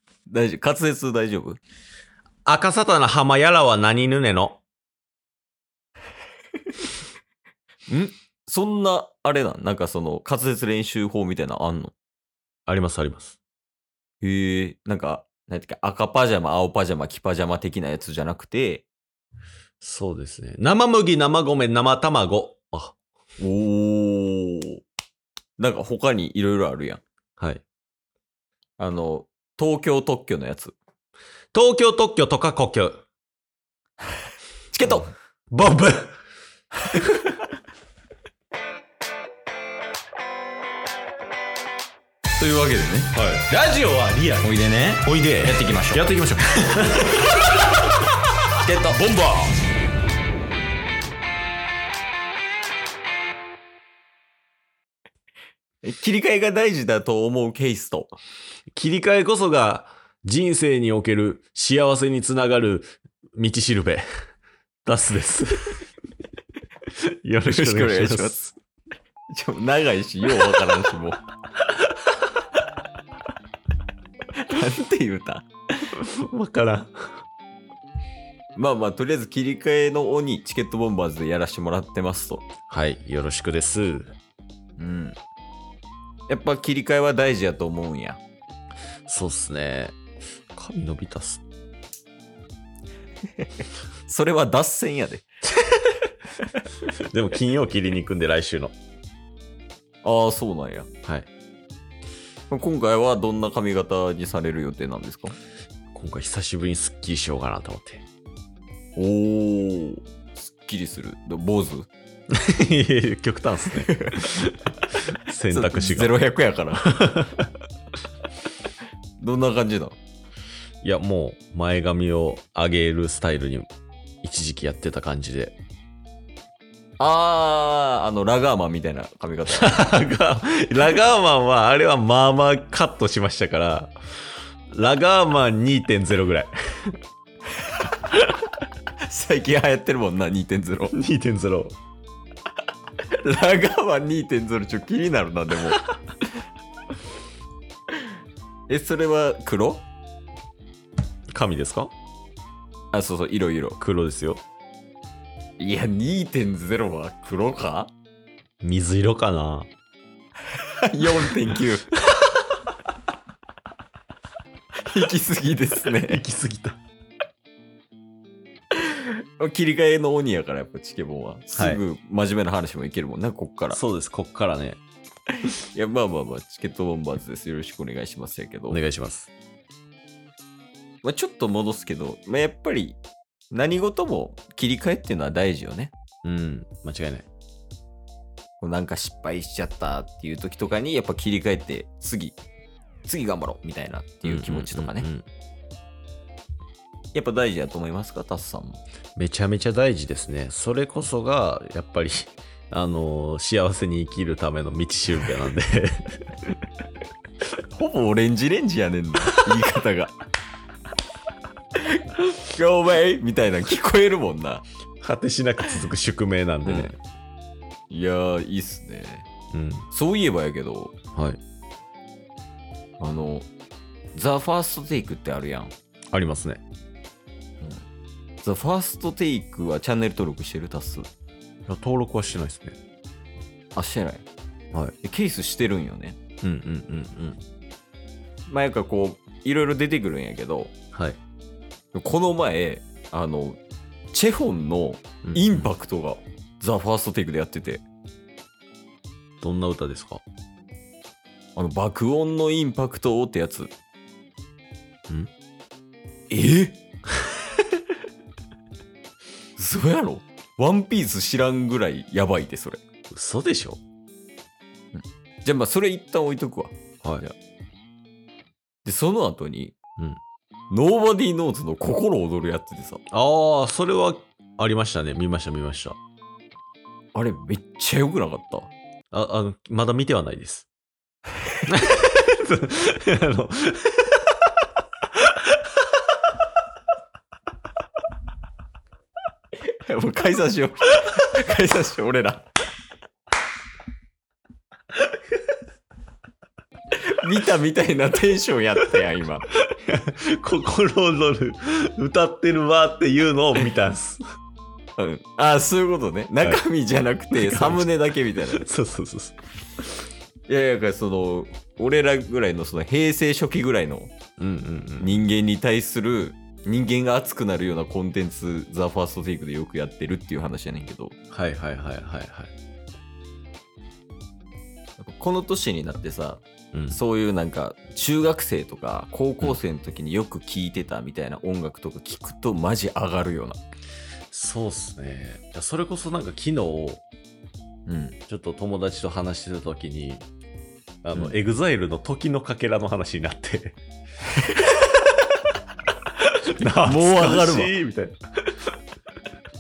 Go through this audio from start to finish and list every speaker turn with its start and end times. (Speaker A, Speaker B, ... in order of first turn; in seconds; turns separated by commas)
Speaker A: 0.3-1.6, Speaker B: 2.5-4.6, Speaker A: 7.9-11.9, Speaker B: 12.7-13.4, Speaker A: 14.2-18.9, Speaker B: 19.8-22.9, Speaker A: 23.4-24.8, Speaker A: 25.6-27.0, Speaker A: 28.8-30.7, Speaker B: 31.5-33.0, Speaker A: 34.7-35.1, Speaker B: 35.5-36.1, Speaker A: 42.4-43.2, Speaker B: 43.1-44.5, Speaker A: 44.4-46.0, Speaker B: 45.0-47.5, Speaker A: 48.6-49.0, Speaker B: 48.9-49.5, Speaker A: 55.8-58.1, Speaker B: 58.7-64.0, Speaker B: 64.8-65.8, Speaker B: 67.2-68.5, Speaker A: 67.4-68.4, Speaker A: 69.3-71.2, Speaker A: 74.4-75.5, Speaker B: 76.0-76.9, Speaker A: 78.5-82.5, Speaker B: 82.7-84.1, Speaker A: 84.8-85.2, Speaker A: 86.3-88.2, Speaker B: 89.0-90.0, Speaker B: 90.5-91.4, Speaker A: 94.1-95.3, Speaker B: 97.1-98.7, Speaker A: 100.0-100.9, Speaker A: 102.5-105.3, Speaker B: 105.9-108.0, Speaker A: 109.0-111.9, Speaker B: 112.3-114.4, Speaker A: 113.9-114.2, Speaker B: 115.2-116.2, Speaker A: 115.5-116.8, Speaker B: 116.8-117.5, Speaker A: 119.2-120.0, Speaker B: 120.8-123.7, Speaker B: 124.2-125.5, Speaker A: 127.0-129.7, Speaker B: 129.5-133.9, Speaker B: 134.7-136.9, Speaker A: 139.0-140.9, Speaker B: 140.9-141.8, Speaker A: 143.1-145.8, Speaker A: 148.7-149.8, Speaker B: 151.3-151.9, Speaker A: 152.9-153.8, Speaker B: 153.8-154.4, Speaker A: 155.6-157.9, Speaker B: 158.6-159.7, Speaker A: 160.6-161.9, Speaker A: 164.8-166.2, Speaker B: 165.9-166.8, Speaker A: 168.8-173.8, Speaker B: 171.5-171.8, Speaker B: 173.7-174.8, Speaker A: 175.7-178.8, Speaker B: 178.7-179.3, Speaker A: 181.0-183.0, Speaker A: 183.5-185.9, Speaker B: 186.2-187.2, Speaker A: 188.6-192.4, Speaker A: 193.0-195.1, Speaker B: 194.2-195.2, Speaker A: 197.1-198.8, Speaker B: 199.2-206.6, Speaker A: 207.7-210.1, Speaker A: 211.9-214.6, Speaker B: 215.0-216.9, Speaker A: 216.7-216.9, Speaker A: 217.9-219.3, Speaker B: 219.5-219.9, Speaker A: 219.9-220.9, Speaker A: 223.0-223.5, Speaker A: 224.1-225.7, Speaker B: 226.1-226.6, Speaker A: 228.4-231.1, Speaker B: 231.7-232.8, Speaker A: 233.8-234.2, Speaker A: 235.0-236.2, Speaker B: 236.4-237.4, Speaker A: 238.5-240.7, Speaker B: 240.9-241.2, Speaker A: 241.9-243.6, Speaker A: 244.1-247.8, Speaker B: 245.2-245.7, Speaker B: 249.4-250.2, Speaker A: 251.6-253.7, Speaker A: 256.3-256.8, Speaker A: 259.6-262.8, Speaker B: 263.1-263.8, Speaker A: 264.9-267.3, Speaker A: 268.8-269.8, Speaker A: 270.7-273.0, Speaker B: 273.1-276.0, Speaker A: 277.1-278.7, Speaker B: 279.1-280.7, Speaker B: 281.7-284.0, Speaker A: 289.8-292.4, Speaker A: 297.1-299.5, Speaker B: 299.7-304.2, Speaker A: 305.0-308.6, Speaker B: 307.3-307.9, Speaker B: 308.5-309.4, Speaker A: 310.5-314.1, Speaker B: 314.4-315.2, Speaker A: 315.0-321.1, Speaker B: 321.3-322.5, Speaker A: 325.0-333.6, Speaker B: 334.3-337.0, Speaker A: 337.9-338.2, Speaker B: 338.3-340.2, Speaker B: 341.0-343.8, Speaker A: 344.4-344.8, Speaker B: 346.5-348.5, Speaker A: 346.6-347.7